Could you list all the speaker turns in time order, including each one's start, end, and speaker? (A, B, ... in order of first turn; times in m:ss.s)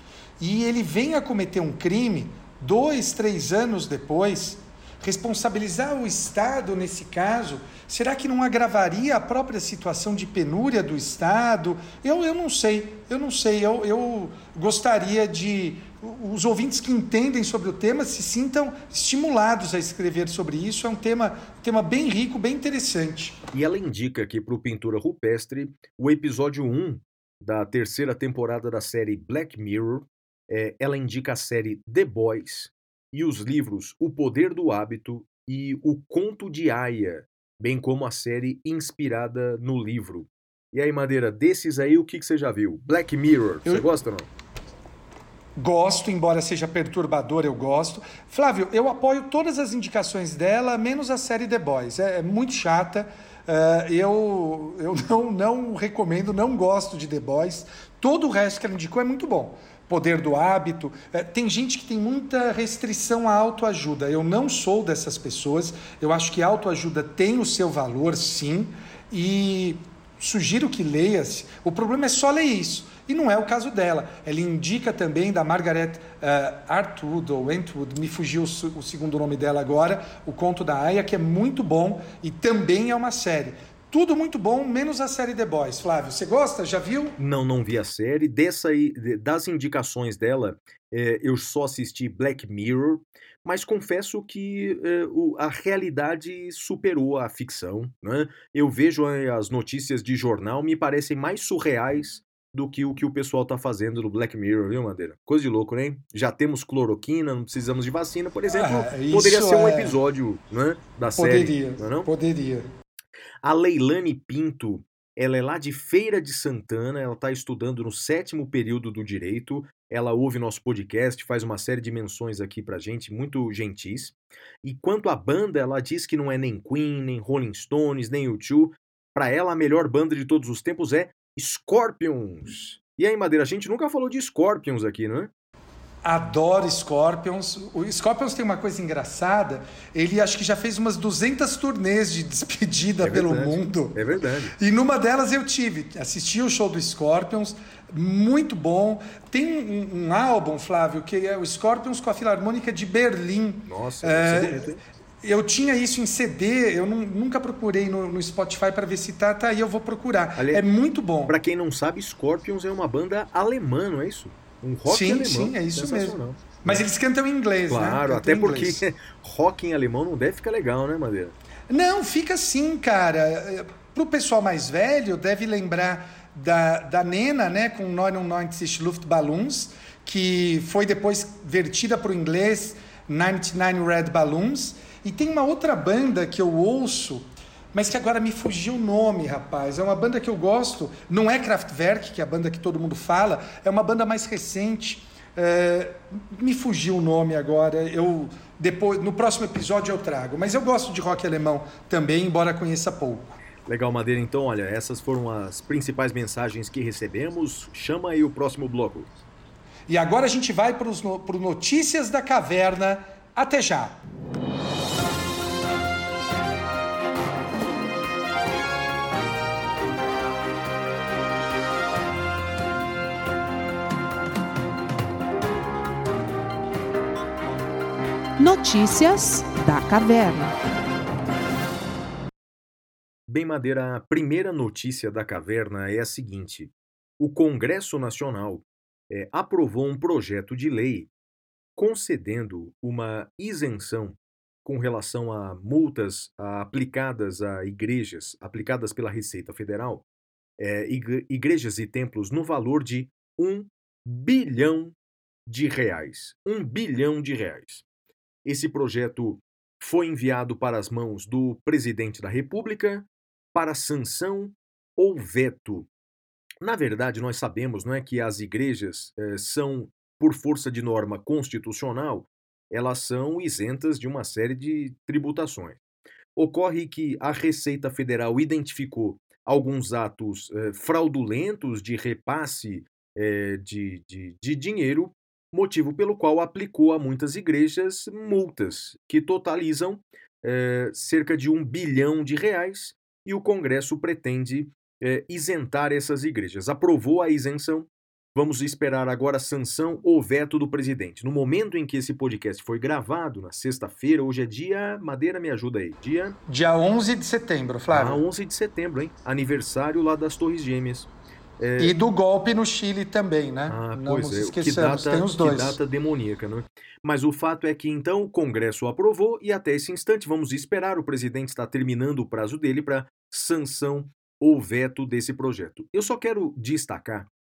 0:00.4-0:23.4 A
0:23.5-0:44.3 B
0:45.6-1:27.2 A
1:27.2-1:52.1 B
1:48.5-1:50.0 A
1:51.0-1:52.7 A
1:53.4-2:15.3 B
2:16.0-2:24.0 A
2:23.0-2:24.5 B
2:24.6-2:41.4 A
2:33.7-2:34.8 B
2:40.4-2:40.6 B
2:41.3-2:46.8 B
2:44.8-2:48.8 A
2:47.7-2:51.3 B
2:51.7-3:23.4 A
3:23.7-3:29.1 B
3:29.9-3:34.0 A
3:48.4-3:50.5 C
3:53.3-4:01.1 B
4:01.8-4:10.0 B
4:10.6-4:14.9 B
4:15.5-4:17.8 B
4:18.4-4:25.9 B
4:26.6-4:35.8 B
4:36.4-5:06.4 B
5:06.5-5:08.2 A
5:07.9-5:11.9 B
5:11.8-5:15.8 A
5:13.7-5:27.3 B